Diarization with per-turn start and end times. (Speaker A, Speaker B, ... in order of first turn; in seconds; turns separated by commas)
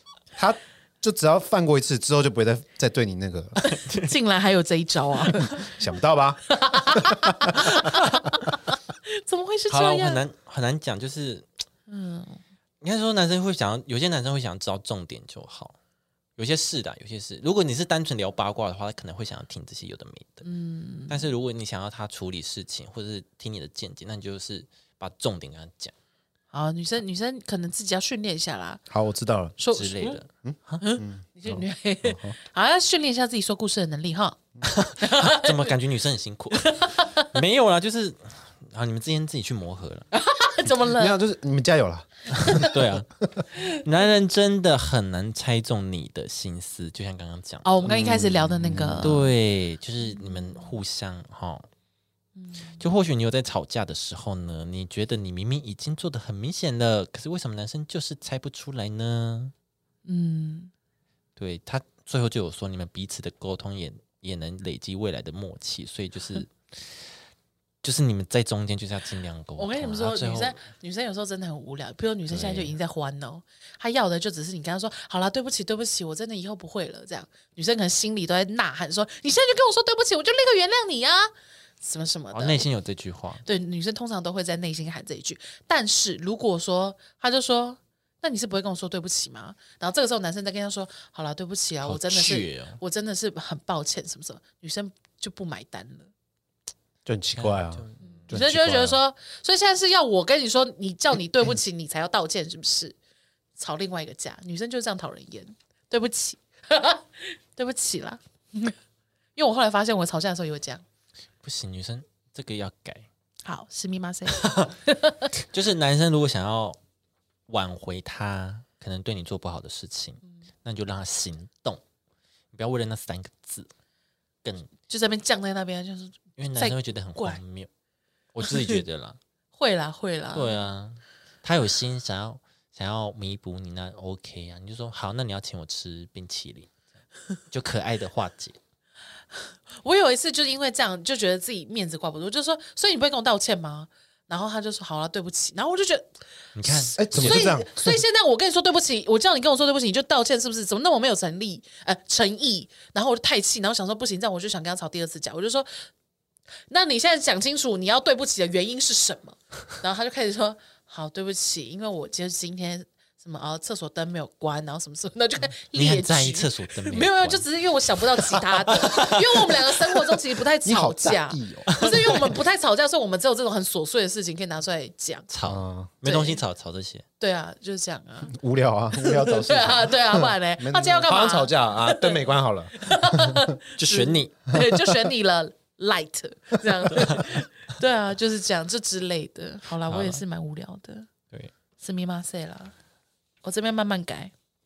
Speaker A: 0.3-3.6, Speaker B: 3.6-4.1, Speaker C: 3.6-5.8, Speaker A: 5.4-7.7, Speaker C: 6.5-10.2, Speaker B: 7.5-8.4, Speaker B: 9.7-11.5, Speaker C: 11.9-12.4, Speaker B: 12.8-15.8, Speaker B: 16.4-20.5, Speaker C: 20.4-21.3, Speaker B: 21.1-25.9, Speaker C: 26.5-28.8, Speaker A: 28.9-29.6, Speaker C: 29.6-30.2, Speaker B: 29.7-30.8, Speaker A: 30.4-32.4, Speaker C: 30.8-34.4, Speaker B: 34.6-40.1, Speaker C: 35.0-35.7, Speaker C: 36.5-37.3, Speaker C: 40.1-41.2, Speaker A: 40.9-42.7, Speaker B: 42.3-47.7, Speaker C: 42.4-42.7, Speaker C: 47.6-49.3, Speaker A: 47.8-49.1, Speaker B: 49.0-51.7, Speaker C: 50.1-50.7, Speaker C: 52.4-52.8, Speaker B: 52.8-59.5, Speaker C: 60.0-60.7, Speaker B: 61.4-67.0, Speaker B: 67.8-70.6, Speaker C: 69.6-82.7, Speaker B: 72.3-72.8, Speaker B: 82.3-83.4, Speaker C: 83.4-96.1, Speaker B: 91.8-92.8, Speaker A: 97.0-99.0, Speaker B: 97.3-98.3, Speaker C: 98.0-102.9, Speaker C: 103.6-108.8, Speaker C: 109.3-110.8, Speaker B: 111.4-113.1, Speaker C: 113.4-115.3, Speaker B: 114.4-114.7, Speaker B: 115.4-116.8, Speaker B: 117.5-121.8, Speaker B: 122.5-123.7, Speaker B: 124.4-124.7, Speaker C: 124.9-127.4, Speaker B: 126.4-127.7, Speaker B: 128.3-129.2, Speaker C: 128.4-128.8, Speaker C: 129.6-130.6, Speaker B: 130.3-136.7, Speaker B: 137.5-138.6, Speaker C: 139.3-146.1, Speaker B: 146.5-147.6, Speaker C: 146.7-155.8, Speaker A: 146.9-148.0, Speaker C: 156.7-175.3, Speaker B: 165.7-167.5, Speaker B: 168.8-169.6, Speaker A: 170.6-171.8, Speaker B: 171.7-172.4, Speaker B: 175.3-177.0, Speaker A: 175.4-175.9, Speaker C: 176.0-176.4, Speaker C: 177.2-178.3, Speaker A: 178.3-183.5, Speaker C: 178.9-191.1, Speaker B: 183.8-184.3, Speaker A: 184.5-185.0, Speaker B: 186.9-187.4, Speaker B: 189.9-190.2, Speaker C: 191.8-192.7, Speaker C: 193.4-194.3